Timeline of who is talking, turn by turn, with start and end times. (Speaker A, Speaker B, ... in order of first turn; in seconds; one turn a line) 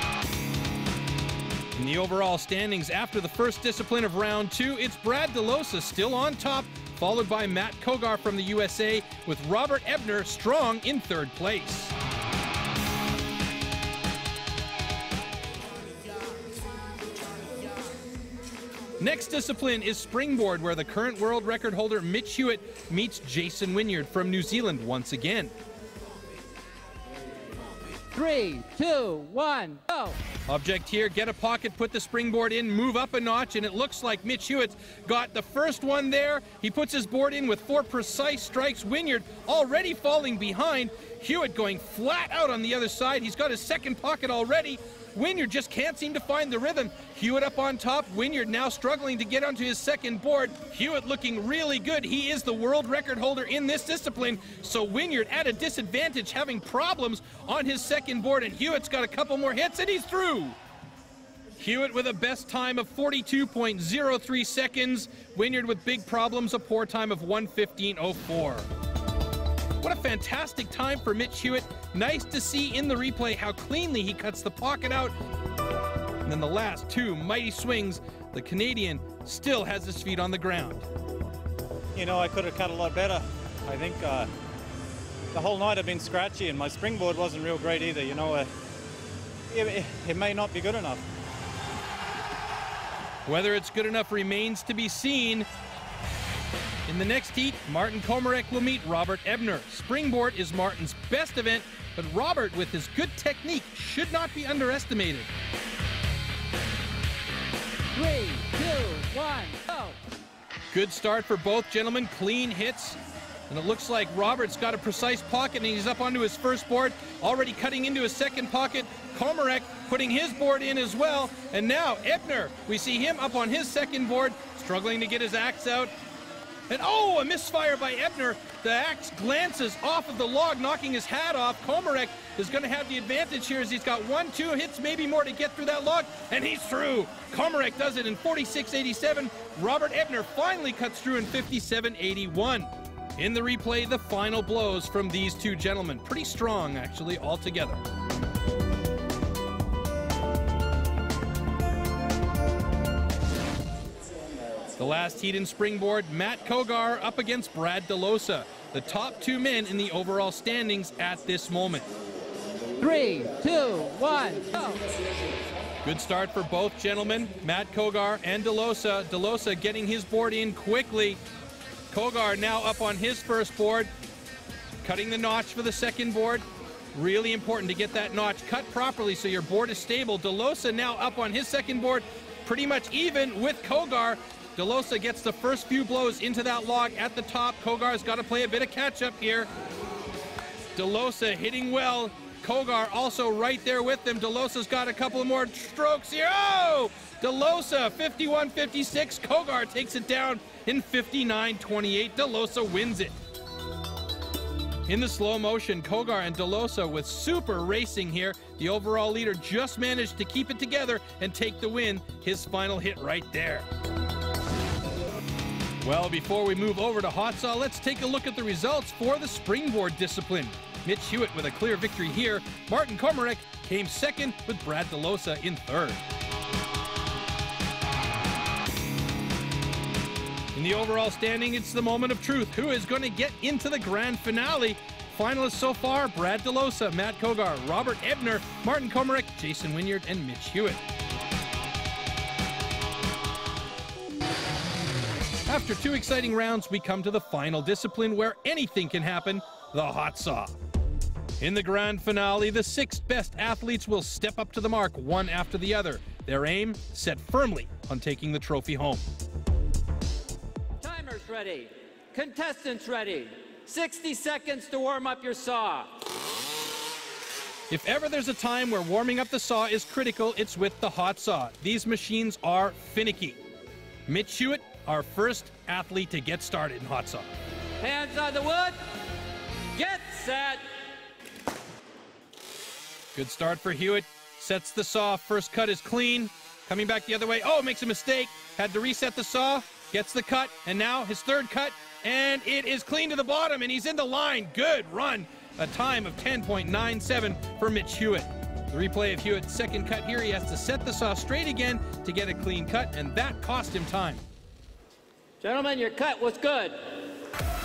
Speaker A: 1.7-11.9
Speaker A: 19.0-25.5
Speaker B: 28.1-30.2
Speaker A: 30.5-60.6
Speaker A: 61.6-68.7
Speaker A: 69.8-75.1
Speaker A: 76.2-80.8
Speaker C: 81.9-84.3
Speaker C: 85.3-88.5
Speaker C: 89.5-91.1
Speaker A: 93.2-95.5
Speaker A: 96.9-105.3
Speaker B: 107.9-110.0
Speaker A: 110.7-125.9
Speaker A: 126.7-147.8
Speaker A: 154.8-161.9
Speaker B: 162.8-164.8
Speaker A: 165.8-171.2
Speaker A: 171.9-173.9
Speaker A: 174.8-189.5
Speaker A: 190.7-203.2
Speaker A: 204.9-213.7
Speaker A: 215.8-226.0
Speaker A: 230.5-240.8
Speaker A: 245.5-250.6
Speaker A: 251.4-259.0
Speaker B: 260.8-266.1
Speaker A: 267.7-273.4
Speaker A: 274.1-277.3
Speaker B: 277.8-278.8
Speaker B: 279.7-280.7
Speaker A: 283.1-304.2
Speaker B: 305.4-307.0